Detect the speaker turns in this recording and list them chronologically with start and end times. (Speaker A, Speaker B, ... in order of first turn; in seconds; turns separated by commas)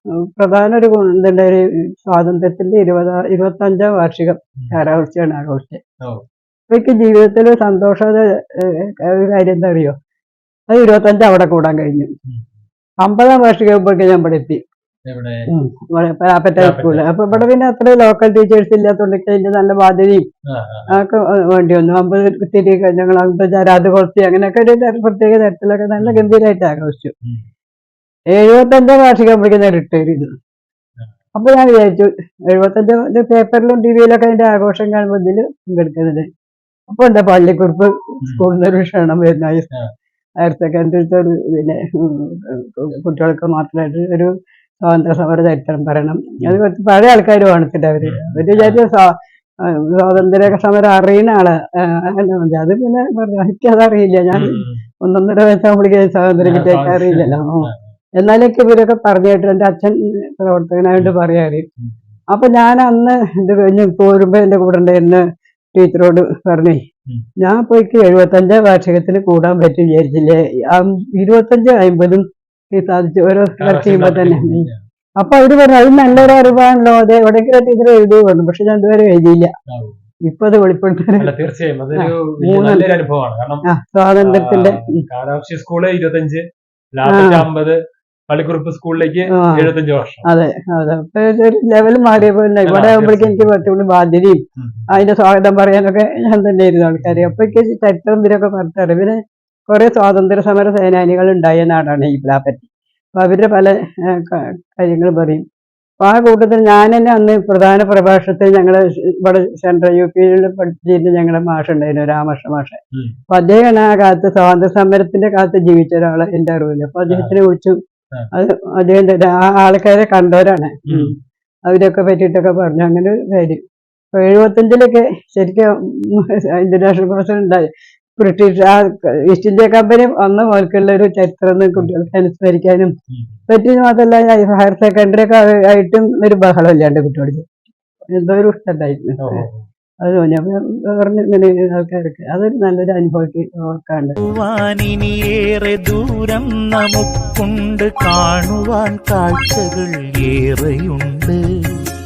Speaker A: 0.3-5.8, Speaker A: 6.7-9.9, Speaker A: 10.7-12.1, Speaker A: 13.0-14.6, Speaker B: 15.1-15.5, Speaker A: 15.5-20.3, Speaker B: 16.6-17.4, Speaker B: 20.5-20.9, Speaker A: 20.9-27.1, Speaker B: 26.0-26.2, Speaker A: 28.3-30.3, Speaker A: 31.3-36.2, Speaker A: 36.9-39.7, Speaker A: 40.4-49.1, Speaker B: 48.0-48.8, Speaker A: 49.7-57.7, Speaker B: 54.3-54.8, Speaker B: 56.4-57.8, Speaker A: 58.2-61.6, Speaker A: 62.3-66.8, Speaker A: 67.4-74.7, Speaker B: 73.6-74.8, Speaker A: 75.2-79.5, Speaker B: 76.1-76.4, Speaker B: 79.7-80.0, Speaker A: 80.2-81.3, Speaker B: 81.2-83.6, Speaker A: 81.9-82.9, Speaker A: 83.7-85.0, Speaker B: 84.2-87.8, Speaker A: 87.0-87.5, Speaker B: 88.3-90.2, Speaker A: 89.3-89.7, Speaker A: 90.2-105.4, Speaker B: 92.2-93.6, Speaker B: 94.6-95.0, Speaker B: 97.0-97.5, Speaker A: 106.0-112.8, Speaker A: 113.3-117.8, Speaker B: 117.1-117.3, Speaker A: 118.3-121.1, Speaker A: 121.7-123.6, Speaker A: 124.1-132.9, Speaker B: 133.1-133.3, Speaker A: 133.5-137.5, Speaker A: 138.1-139.4, Speaker B: 139.2-139.7, Speaker A: 140.0-144.2, Speaker C: 144.3-151.4